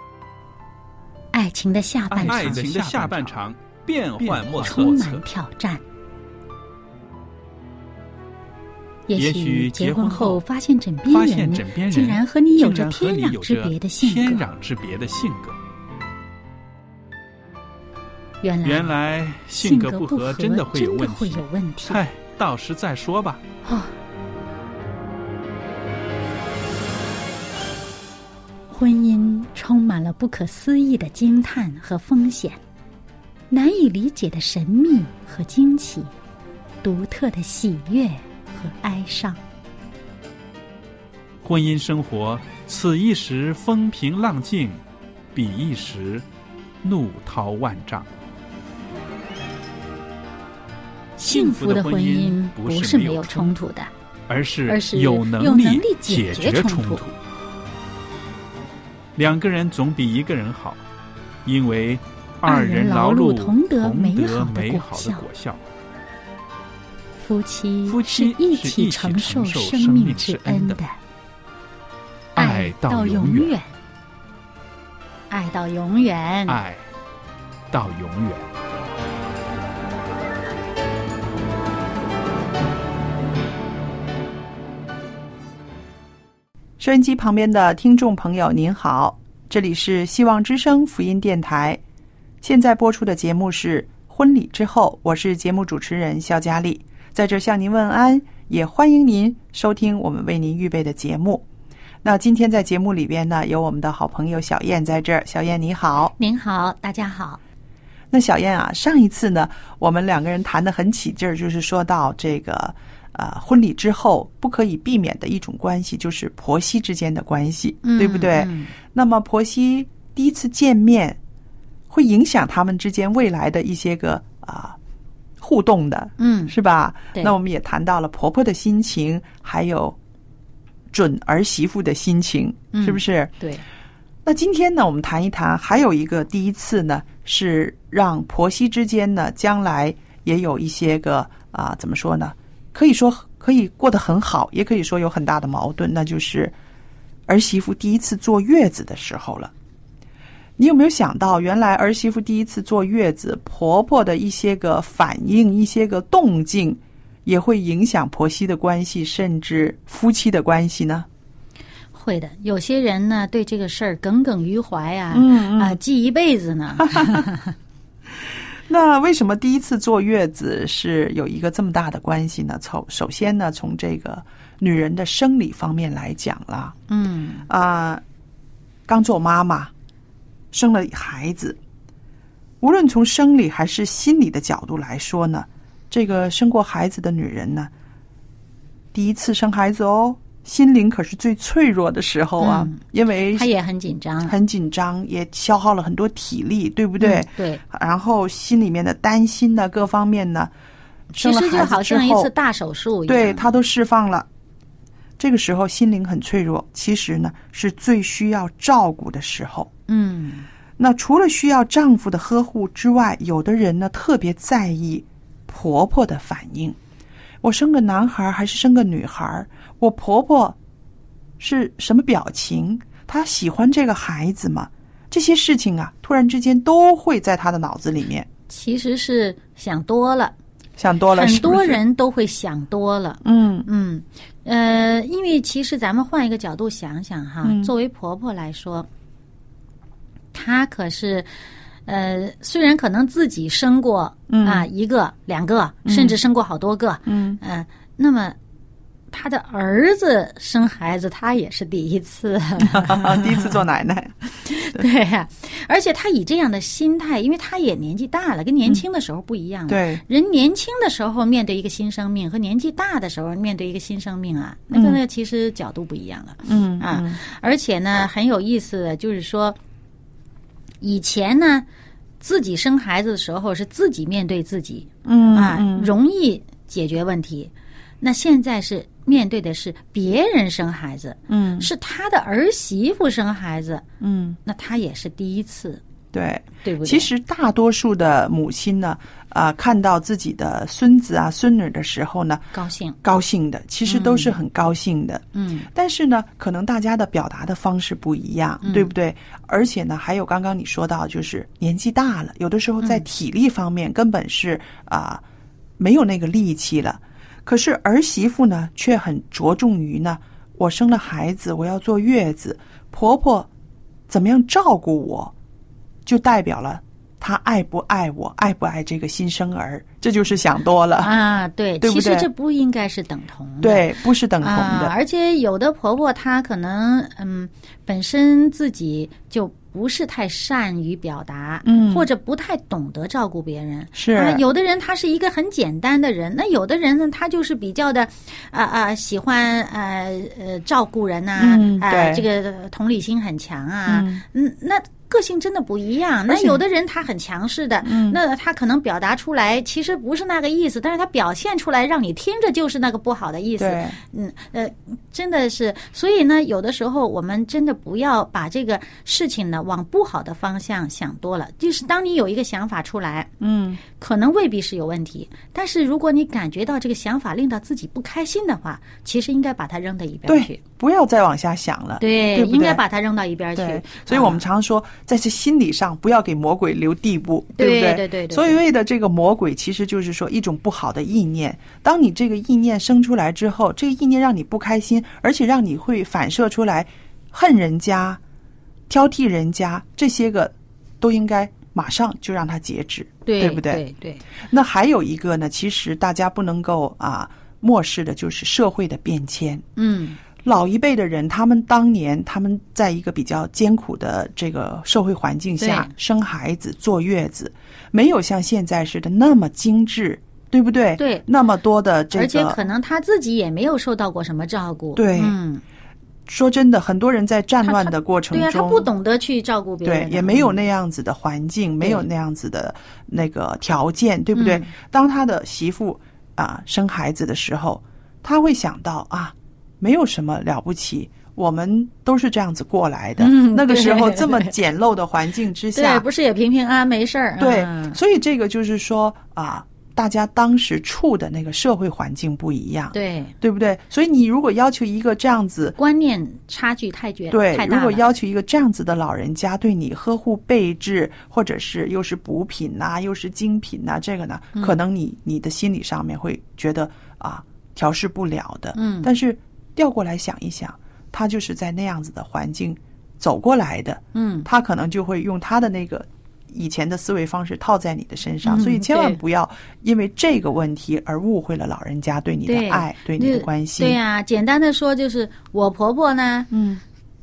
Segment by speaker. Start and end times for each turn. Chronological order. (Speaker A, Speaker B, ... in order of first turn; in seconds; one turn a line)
Speaker A: 1.3-2.6
Speaker B: 2.1-5.2
Speaker C: 2.2-3.1
Speaker C: 4.2-4.5
Speaker A: 4.6-5.8
Speaker A: 9.1-14.4
Speaker B: 9.2-10.4
Speaker B: 11.1-15.6
Speaker A: 18.4-18.9
Speaker B: 18.6-23.4
Speaker A: 19.6-22.0
Speaker A: 23.6-23.9
Speaker A: 28.7-32.6
Speaker A: 33.5-36.1
Speaker A: 36.8-39.4
Speaker B: 41.4-44.8
Speaker B: 45.3-46.2
Speaker B: 46.8-48.1
Speaker A: 51.2-53.9
Speaker B: 51.2-53.5
Speaker B: 54.3-57.1
Speaker A: 54.7-57.0
Speaker B: 59.1-60.8
Speaker B: 61.4-65.6
Speaker A: 62.4-65.2
Speaker A: 67.2-71.0
Speaker B: 67.8-70.8
Speaker B: 72.3-73.5
Speaker A: 72.3-73.7
Speaker A: 75.3-76.6
Speaker B: 76.5-76.9
Speaker B: 77.7-78.5
Speaker C: 86.8-91.8
Speaker C: 92.4-101.4
Speaker C: 102.0-106.1
Speaker A: 106.2-107.4
Speaker C: 108.1-121.2
Speaker A: 117.8-118.7
Speaker C: 121.9-124.8
Speaker C: 125.4-130.0
Speaker A: 126.2-126.5
Speaker C: 130.9-133.3
Speaker A: 132.7-133.6
Speaker C: 134.2-146.5
Speaker C: 147.3-149.5
Speaker C: 150.6-161.1
Speaker A: 161.9-167.5
Speaker C: 165.1-165.8
Speaker C: 166.8-167.2
Speaker C: 168.1-176.8
Speaker A: 176.9-177.4
Speaker C: 177.5-178.0
Speaker C: 178.9-179.7
Speaker C: 180.5-181.6
Speaker C: 182.6-187.7
Speaker C: 188.9-193.5
Speaker A: 192.4-192.8
Speaker A: 193.3-194.3
Speaker C: 194.2-200.5
Speaker A: 197.0-197.6
Speaker C: 201.1-202.3
Speaker A: 201.1-203.5
Speaker C: 203.1-204.3
Speaker C: 205.2-209.7
Speaker A: 209.9-210.5
Speaker C: 210.8-216.8
Speaker C: 217.4-220.6
Speaker C: 221.4-228.3
Speaker A: 228.5-230.3
Speaker C: 230.8-231.8
Speaker A: 231.1-238.9
Speaker C: 233.2-233.7
Speaker C: 237.4-237.7
Speaker A: 240.3-241.3
Speaker A: 241.8-248.4
Speaker C: 244.3-244.7
Speaker C: 245.8-246.2
Speaker C: 247.1-247.4
Speaker A: 249.1-253.5
Speaker C: 252.6-254.2
Speaker A: 254.4-269.6
Speaker C: 259.7-260.0
Speaker C: 264.7-265.0
Speaker C: 266.4-267.2
Speaker A: 270.8-271.6
Speaker A: 272.2-283.8
Speaker C: 275.0-275.9
Speaker C: 281.3-281.7
Speaker C: 284.0-284.4
Speaker A: 284.4-285.8
Speaker C: 286.1-305.2
Speaker A: 286.6-287.1
Speaker A: 292.5-292.9
Speaker A: 293.8-294.3
Speaker A: 295.3-295.7
Speaker A: 298.6-298.9
Speaker C: 305.8-313.5
Speaker C: 314.1-315.3
Speaker C: 316.1-321.1
Speaker A: 321.0-323.9
Speaker C: 321.8-322.3
Speaker C: 323.6-324.9
Speaker A: 324.4-363.3
Speaker C: 331.6-332.1
Speaker C: 333.9-334.4
Speaker C: 341.4-342.2
Speaker C: 343.9-344.2
Speaker C: 346.3-346.6
Speaker C: 347.8-348.2
Speaker C: 353.6-354.0
Speaker C: 363.4-363.8
Speaker A: 363.9-370.6
Speaker C: 370.3-372.8
Speaker A: 372.0-374.4
Speaker C: 373.6-388.2
Speaker A: 377.6-378.6
Speaker C: 388.9-393.8
Speaker A: 393.2-394.2
Speaker C: 394.4-399.6
Speaker A: 399.8-400.2
Speaker C: 400.4-412.6
Speaker A: 405.6-405.9
Speaker A: 411.0-411.2
Speaker A: 412.1-415.6
Speaker C: 414.9-415.3
Speaker C: 416.2-418.9
Speaker A: 417.6-420.6
Speaker C: 419.8-436.1
Speaker A: 421.8-422.1
Speaker A: 424.3-424.7
Speaker A: 433.2-434.5
Speaker A: 435.7-438.0
Speaker C: 437.4-445.7
Speaker A: 442.9-443.3
Speaker A: 445.8-448.0
Speaker C: 447.3-474.0
Speaker A: 458.7-459.1
Speaker A: 464.1-464.5
Speaker A: 468.4-469.2
Speaker A: 472.4-476.5
Speaker C: 476.5-476.8